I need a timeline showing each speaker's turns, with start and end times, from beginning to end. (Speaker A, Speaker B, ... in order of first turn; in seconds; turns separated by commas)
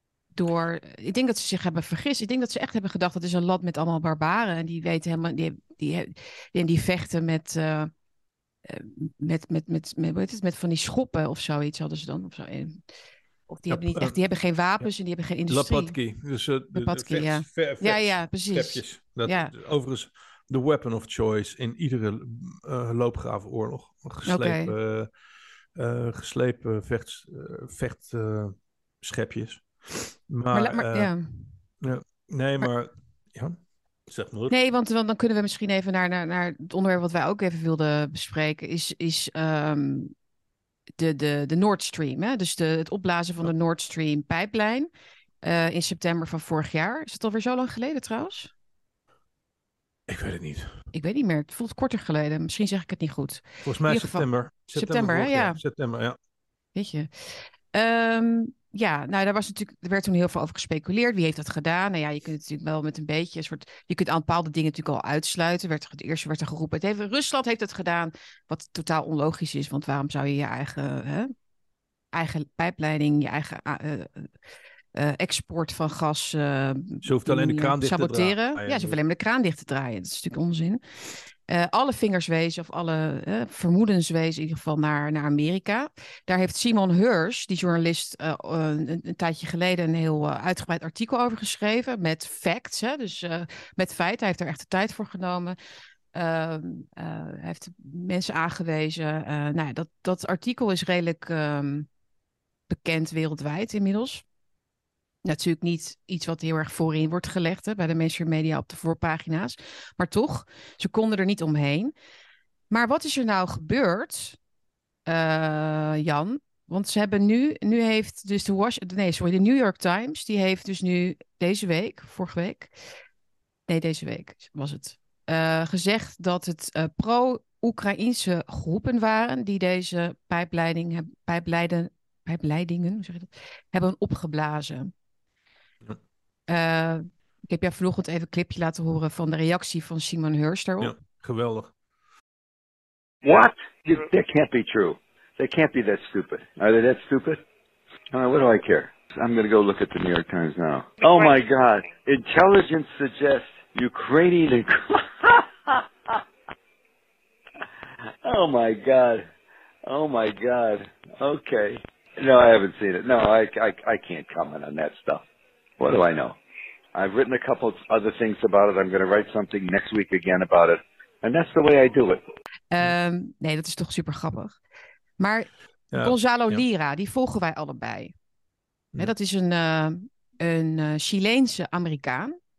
Speaker A: 0.3-7.9, Speaker A: 8.7-12.8, Speaker A: 13.5-16.0, Speaker B: 13.7-14.2, Speaker B: 15.5-25.1, Speaker A: 16.7-19.5, Speaker A: 24.3-24.7, Speaker B: 25.8-31.1, Speaker A: 30.5-31.6, Speaker B: 31.8-34.6, Speaker A: 34.5-40.1, Speaker A: 41.0-44.9, Speaker A: 45.4-48.5, Speaker B: 50.1-50.8, Speaker A: 50.9-55.6, Speaker B: 53.6-56.2, Speaker A: 56.8-71.3, Speaker A: 72.1-74.3, Speaker A: 75.0-80.8, Speaker B: 77.0-79.0, Speaker A: 81.5-95.5, Speaker A: 96.1-101.9, Speaker A: 102.7-104.2, Speaker A: 105.2-111.9, Speaker A: 112.7-114.4, Speaker A: 115.1-122.7, Speaker A: 123.7-134.9, Speaker A: 136.5-140.9, Speaker B: 140.8-141.7, Speaker C: 143.2-147.4, Speaker C: 148.1-156.2, Speaker C: 158.2-159.3, Speaker C: 159.9-165.2, Speaker C: 165.8-166.4, Speaker C: 166.9-172.2, Speaker A: 172.7-174.6, Speaker A: 175.2-178.1, Speaker B: 175.9-176.6, Speaker A: 179.0-182.4